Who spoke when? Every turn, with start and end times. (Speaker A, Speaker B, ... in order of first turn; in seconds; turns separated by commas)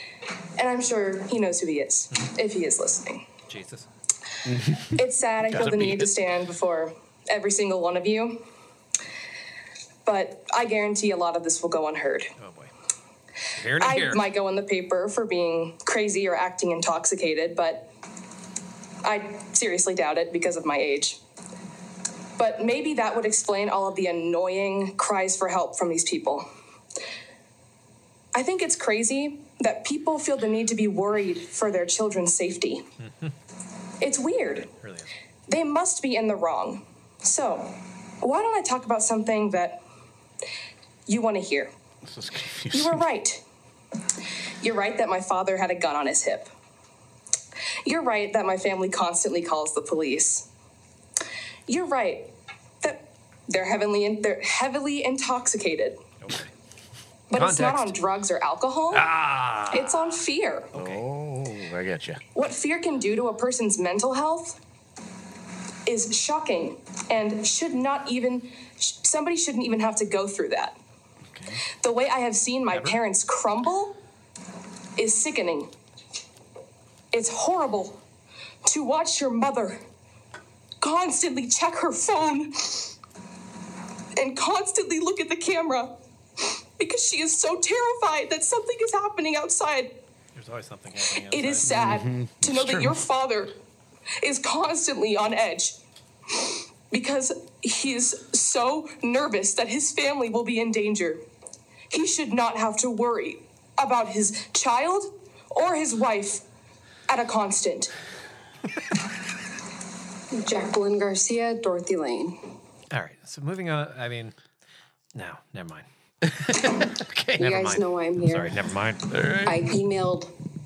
Speaker A: 0.6-3.2, Speaker B: 3.5-3.9, Speaker C: 4.5-6.1, Speaker A: 4.9-8.4, Speaker A: 10.0-12.3, Speaker B: 12.4-12.7, Speaker B: 13.5-14.2, Speaker A: 13.8-17.9, Speaker A: 19.0-21.2, Speaker A: 22.4-26.5, Speaker A: 28.3-32.8, Speaker B: 33.0-33.3, Speaker A: 34.0-34.7, Speaker B: 34.8-35.1, Speaker A: 35.5-39.8, Speaker A: 41.1-41.7, Speaker C: 42.0-43.0, Speaker A: 42.7-43.4, Speaker A: 44.6-46.5, Speaker A: 47.8-50.5, Speaker A: 51.7-56.0, Speaker B: 56.2-56.5, Speaker A: 57.3-59.0, Speaker B: 57.3-58.0, Speaker B: 58.9-60.0, Speaker A: 59.7-60.7, Speaker B: 60.7-61.0, Speaker C: 60.7-62.2, Speaker A: 62.3-64.6, Speaker A: 65.8-70.8, Speaker C: 71.3-71.6, Speaker A: 71.8-74.0, Speaker B: 72.7-73.0, Speaker A: 75.0-75.7, Speaker A: 77.1-78.0, Speaker A: 78.6-79.8, Speaker A: 80.8-82.9, Speaker A: 84.2-86.0, Speaker A: 86.8-90.0, Speaker B: 90.3-91.7, Speaker A: 91.3-93.5, Speaker C: 91.7-93.0, Speaker A: 94.2-95.8, Speaker A: 96.9-101.2, Speaker A: 101.9-106.4, Speaker A: 107.1-107.9, Speaker D: 110.3-112.4, Speaker B: 112.9-114.3, Speaker B: 115.1-115.8, Speaker C: 116.3-117.4, Speaker D: 117.4-118.6, Speaker B: 117.4-119.1, Speaker C: 119.1-119.6, Speaker D: 119.4-120.3